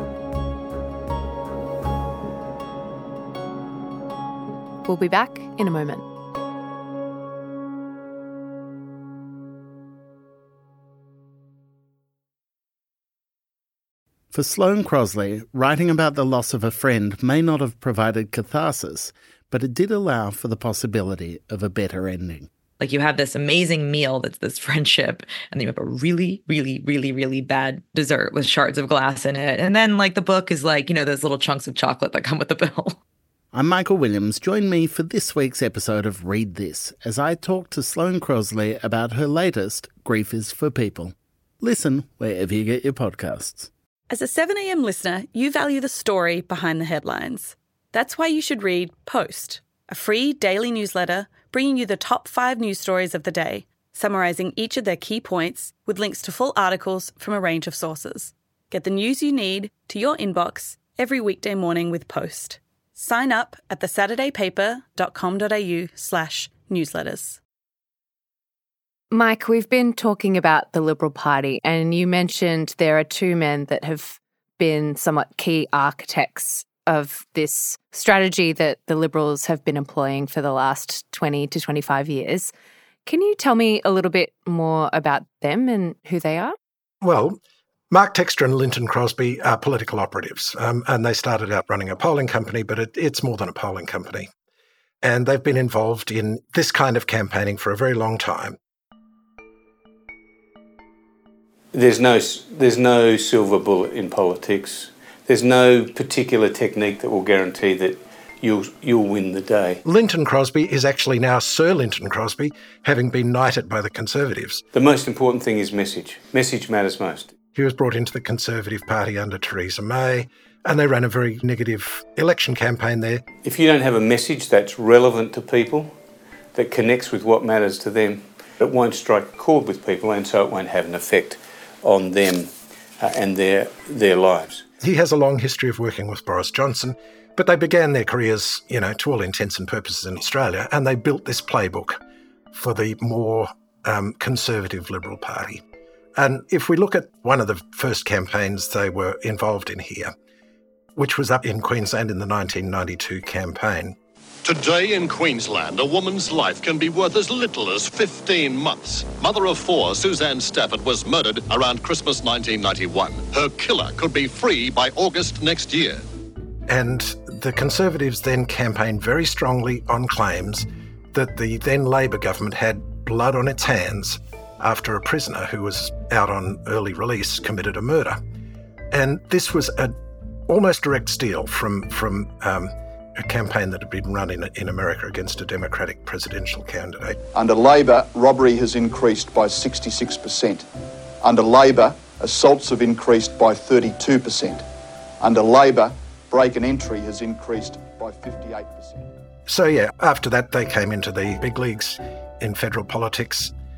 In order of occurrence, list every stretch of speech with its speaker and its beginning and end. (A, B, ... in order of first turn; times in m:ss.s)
0:04.8-0:06.0 A
0:14.3-0:22.5 B
0:22.8-0:33.0 C
0:33.5-0:43.7 B
0:44.1-1:07.4 D
1:09.1-1:22.5 A
1:23.0-1:26.5 A
1:27.0-1:27.4 E
1:27.9-1:34.3 E
1:35.0-1:38.6 E
1:41.7-1:49.8 F
1:49.8-1:54.6 E
1:54.7-1:57.3 F
1:57.5-2:03.2 E
2:03.4-2:05.9 F
2:06.5-2:14.6 F
2:14.8-2:22.0 E
2:22.5-2:25.6 E
2:26.2-2:30.1 E
2:31.0-2:34.0 E
2:34.4-2:46.0 G
2:46.7-2:58.2 E
2:58.9-2:59.9 E
3:00.5-3:07.2 E
3:07.3-3:10.6 H
3:11.2-3:14.6 H
3:15.2-3:19.1 H
3:19.5-3:23.5 E